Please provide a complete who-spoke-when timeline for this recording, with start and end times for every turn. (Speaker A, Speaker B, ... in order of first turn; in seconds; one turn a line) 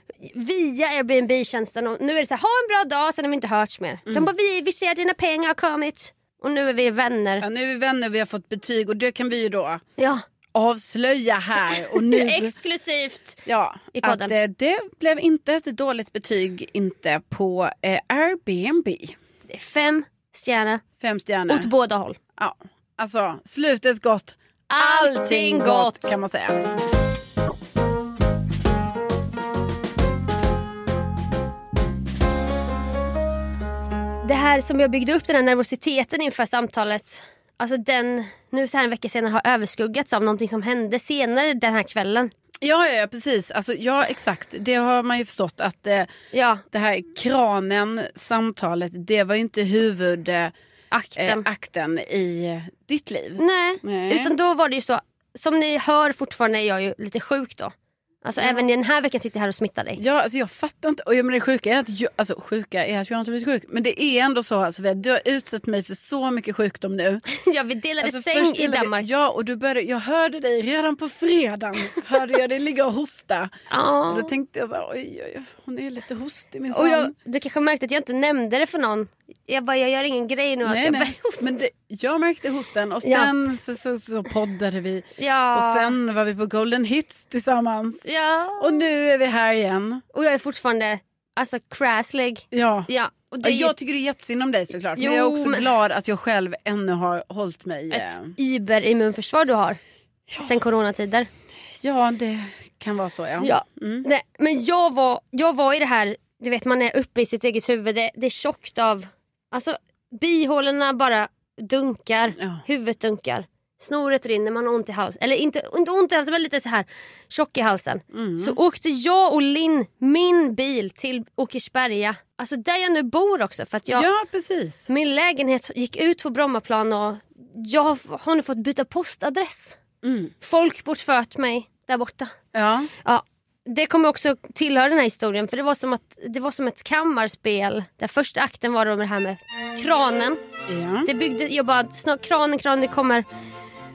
Speaker A: 0.2-7.5
Speaker B: 7.4-9.8
Speaker A: 10.0-10.2
Speaker B: 10.6-12.5
Speaker A: 11.9-13.4
Speaker B: 13.5-19.1
Speaker A: 14.0-14.3
Speaker A: 19.5-20.8
Speaker B: 21.0-21.7
Speaker A: 21.5-22.2
Speaker B: 22.4-26.7
Speaker A: 24.7-26.1
Speaker A: 34.2-42.3
Speaker B: 42.6-46.1
Speaker A: 46.3-46.6
Speaker B: 46.7-50.5
Speaker A: 50.9-51.5
Speaker B: 51.2-54.3
Speaker A: 53.4-57.7
Speaker A: 58.2-60.0
Speaker B: 58.4-58.7
Speaker B: 60.0-67.2
Speaker A: 67.3-69.1
Speaker B: 68.0-73.5
Speaker A: 73.7-74.3
Speaker B: 74.1-77.1
Speaker A: 76.7-81.6
Speaker B: 80.7-88.1
Speaker A: 83.0-83.3
Speaker A: 85.2-85.9
Speaker A: 88.0-88.8
Speaker B: 88.6-90.0
Speaker A: 90.1-93.7
Speaker B: 92.5-92.9
Speaker B: 93.4-98.3
Speaker A: 95.0-95.7
Speaker A: 97.9-99.8
Speaker B: 100.3-100.6
Speaker A: 100.4-101.3
Speaker B: 101.8-104.1
Speaker A: 103.4-124.1
Speaker B: 112.4-112.6
Speaker B: 118.1-118.6
Speaker B: 123.9-124.9
Speaker A: 124.9-129.8
Speaker B: 130.0-130.3
Speaker A: 130.4-132.3
Speaker B: 132.5-132.9
Speaker A: 133.0-140.4
Speaker B: 140.7-141.1
Speaker A: 141.1-143.2